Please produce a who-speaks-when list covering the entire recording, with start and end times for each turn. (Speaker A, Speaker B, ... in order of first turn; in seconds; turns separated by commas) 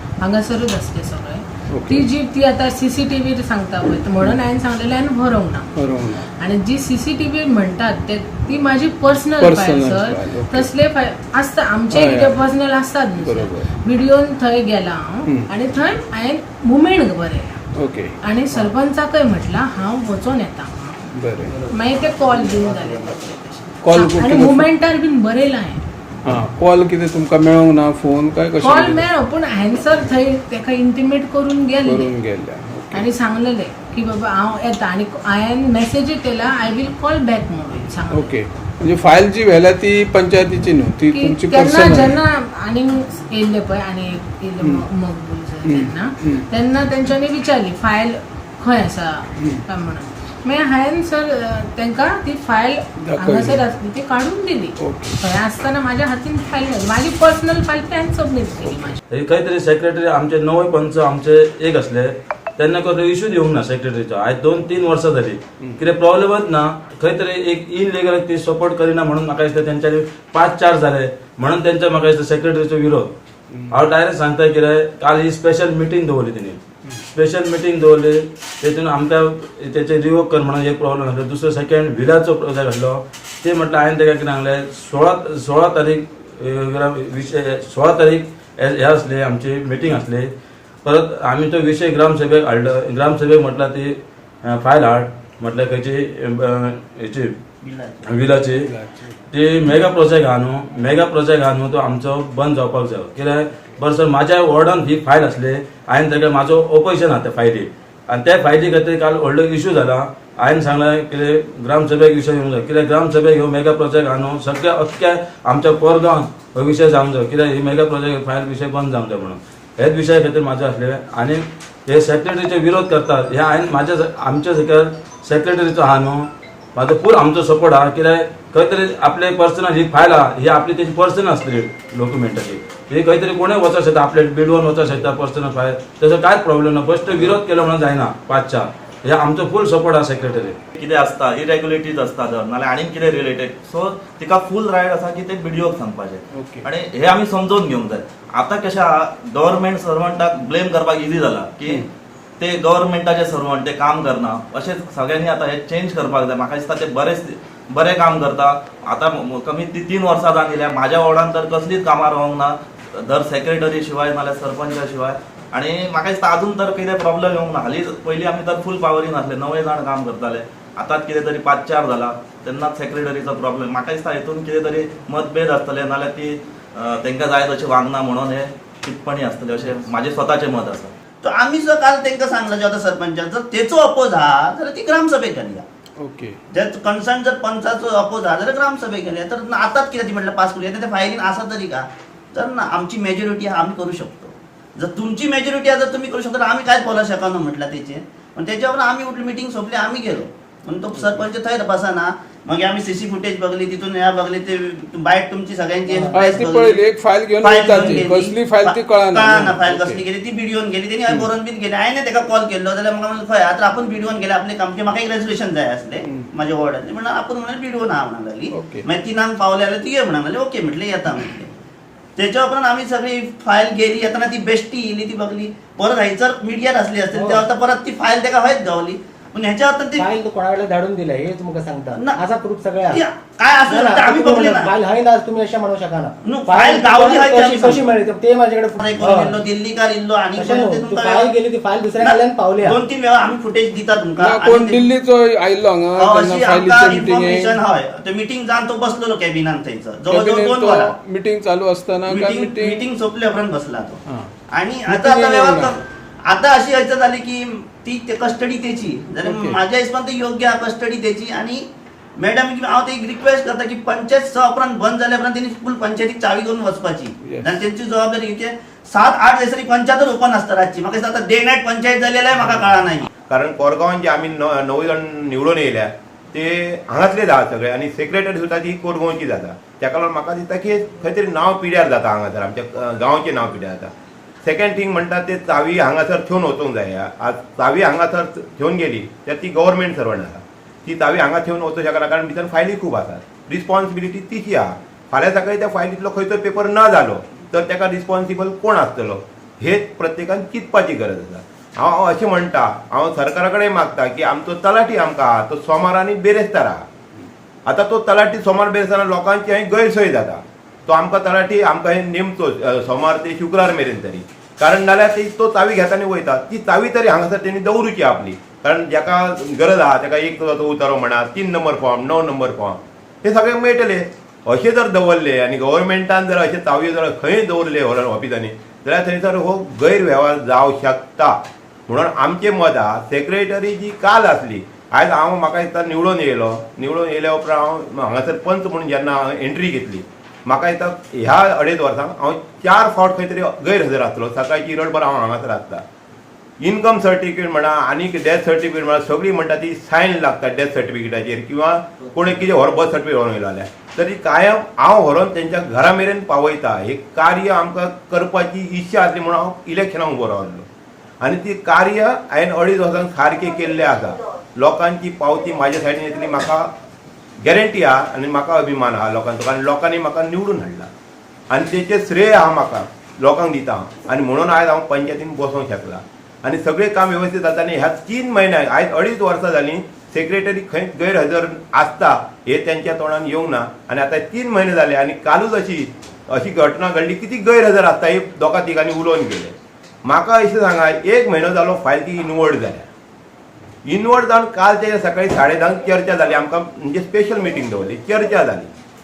Speaker A: 0.2-5.7, Speaker B: 1.7-2.0, Speaker B: 5.8-6.3, Speaker A: 6.4-17.6, Speaker B: 9.4-10.7, Speaker B: 11.9-12.4, Speaker B: 13.2-13.7, Speaker B: 17.8-18.2, Speaker A: 18.2-25.9, Speaker B: 21.1-21.6, Speaker B: 23.8-24.7, Speaker B: 26.3-29.1, Speaker A: 28.6-32.1, Speaker B: 31.9-33.1, Speaker A: 32.9-38.3, Speaker B: 38.1-42.2, Speaker A: 41.1-59.0, Speaker B: 45.7-46.5, Speaker B: 53.0-53.6, Speaker B: 54.8-55.2, Speaker C: 59.1-73.1, Speaker C: 73.7-76.6, Speaker C: 77.1-90.3, Speaker C: 90.8-97.3, Speaker D: 97.6-98.1, Speaker C: 98.1-98.7, Speaker B: 98.7-99.2, Speaker C: 99.3-140.6, Speaker E: 140.7-151.8, Speaker B: 146.3-146.7, Speaker E: 152.4-180.9, Speaker D: 181.2-185.6, Speaker B: 186.0-186.4, Speaker D: 186.5-206.8, Speaker F: 205.9-206.2, Speaker B: 206.1-210.0, Speaker D: 207.4-221.5, Speaker B: 218.5-218.9, Speaker D: 222.2-230.1, Speaker F: 227.1-227.4, Speaker F: 230.0-233.0, Speaker D: 232.9-234.7, Speaker F: 233.7-239.4, Speaker D: 236.2-237.9, Speaker D: 238.8-241.3, Speaker F: 240.3-242.8, Speaker D: 242.0-244.9, Speaker B: 244.2-247.6, Speaker D: 246.0-250.9, Speaker B: 250.1-252.8, Speaker D: 252.1-254.0, Speaker D: 254.5-261.6, Speaker B: 254.9-255.7, Speaker B: 259.2-259.6, Speaker D: 262.2-273.1, Speaker B: 267.2-267.5, Speaker G: 273.3-283.9, Speaker G: 284.4-306.8, Speaker G: 307.7-331.4, Speaker G: 331.9-345.8, Speaker G: 346.6-360.7, Speaker G: 361.2-366.7, Speaker G: 367.4-370.9, Speaker G: 371.5-389.5, Speaker G: 390.1-392.9, Speaker G: 393.9-398.7